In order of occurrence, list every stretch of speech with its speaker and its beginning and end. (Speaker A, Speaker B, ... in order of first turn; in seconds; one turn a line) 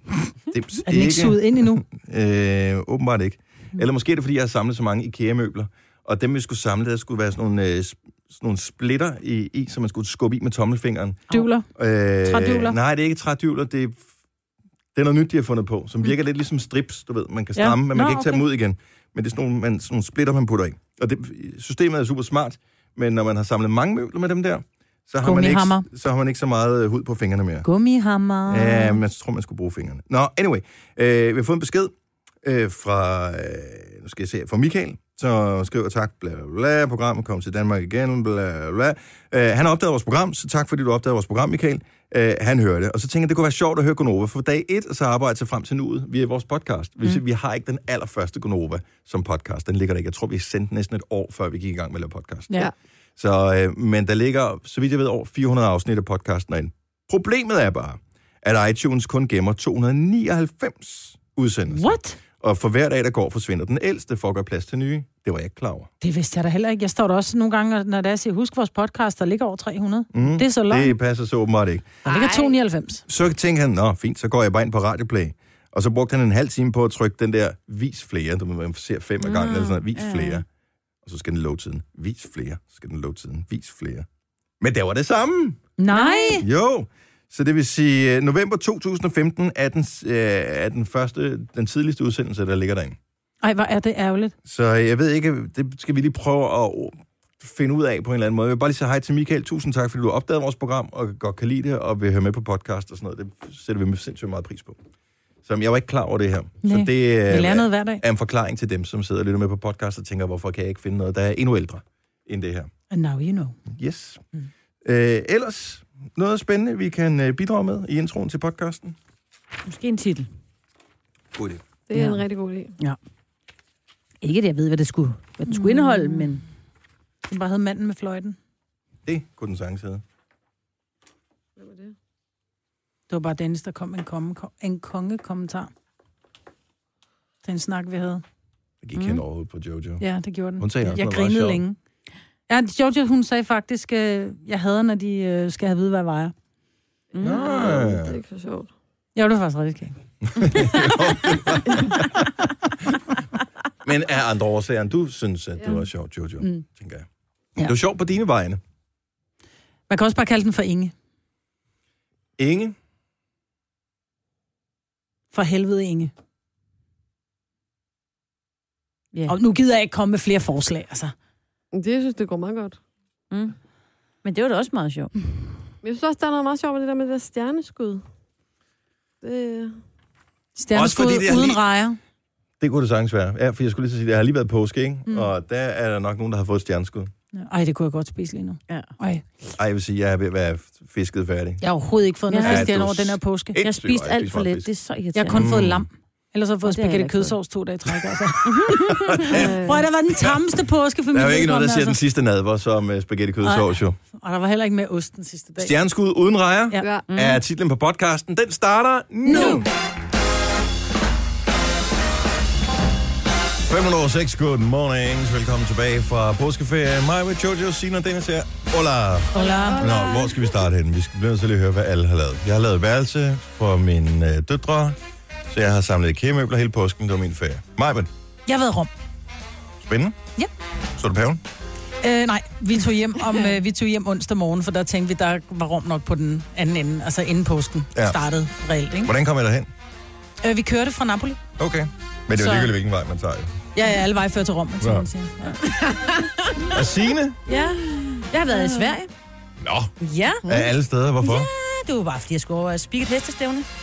Speaker A: 0.5-14.0
Speaker B: 0.8-1.8
Speaker B: 11.3-11.7
Speaker B: 12.2-12.8
Speaker A: 14.9-27.6
Speaker B: 17.5-18.4
Speaker B: 25.2-25.9
Speaker B: 27.6-29.0
Speaker A: 28.5-52.5
Speaker A: 53.2-65.9
Speaker B: 61.7-62.2
Speaker B: 66.0-70.9
Speaker A: 70.1-71.9
Speaker B: 72.0-73.0
Speaker C: 72.1-72.4
Speaker A: 73.1-80.4
Speaker C: 79.3-80.4
Speaker A: 81.0-84.0
Speaker A: 84.6-85.6
Speaker B: 85.8-86.5
Speaker C: 86.0-86.3
Speaker A: 86.4-93.0
Speaker B: 93.4-94.3
Speaker A: 94.4-104.8
Speaker A: 105.4-112.7
Speaker B: 106.6-108.0
Speaker B: 112.9-113.6
Speaker A: 113.7-114.2
Speaker A: 114.8-119.0
Speaker C: 119.7-120.3
Speaker A: 121.3-121.6
Speaker D: 121.9-122.7
Speaker B: 121.9-122.2
Speaker C: 124.2-126.4
Speaker B: 125.5-126.2
Speaker B: 127.3-128.4
Speaker A: 129.0-130.0
Speaker D: 131.6-131.9
Speaker B: 133.1-135.7
Speaker B: 137.4-138.2
Speaker A: 138.8-140.0
Speaker C: 138.9-139.2
Speaker B: 140.0-141.8
Speaker A: 140.6-141.6
Speaker B: 142.5-146.3
Speaker C: 147.1-147.6
Speaker D: 147.2-148.7
Speaker A: 147.2-148.2
Speaker B: 149.2-150.9
Speaker A: 150.3-152.3
Speaker A: 153.8-157.1
Speaker A: 157.6-158.6
Speaker B: 159.9-160.9
Speaker A: 162.4-162.7
Speaker B: 165.3-166.1
Speaker B: 169.3-171.1
Speaker D: 171.7-172.8
Speaker C: 173.3-173.6
Speaker C: 174.2-175.1
Speaker D: 175.8-178.0
Speaker D: 179.2-179.8
Speaker B: 180.6-182.0
Speaker A: 180.7-181.6
Speaker A: 182.6-187.1
Speaker B: 187.3-189.2
Speaker A: 189.6-191.6
Speaker B: 191.6-193.6
Speaker C: 192.3-192.7
Speaker A: 192.4-194.7
Speaker C: 193.6-195.4
Speaker B: 195.1-202.0
Speaker A: 195.3-195.8
Speaker C: 196.6-197.3
Speaker C: 198.4-199.3
Speaker A: 199.1-199.6
Speaker D: 199.3-199.8
Speaker A: 201.1-204.0
Speaker B: 203.4-205.7
Speaker A: 205.6-209.7
Speaker D: 206.8-207.0
Speaker C: 207.1-207.4
Speaker B: 209.2-209.6
Speaker D: 209.3-209.6
Speaker A: 213.7-225.0
Speaker B: 219.3-220.1
Speaker D: 219.4-220.3
Speaker C: 219.4-219.7
Speaker A: 225.5-228.1
Speaker B: 228.5-228.9
Speaker A: 229.8-230.2
Speaker A: 230.9-231.4
Speaker B: 232.0-239.1
Speaker A: 237.9-238.2
Speaker A: 239.0-239.7
Speaker B: 240.4-241.4
Speaker A: 241.6-243.5
Speaker B: 242.4-242.7
Speaker B: 243.8-245.6
Speaker A: 244.8-245.1
Speaker A: 246.7-247.4
Speaker C: 247.5-249.1
Speaker D: 248.5-248.9
Speaker A: 249.6-249.9
Speaker C: 250.0-250.5
Speaker A: 250.4-251.5
Speaker C: 251.2-253.7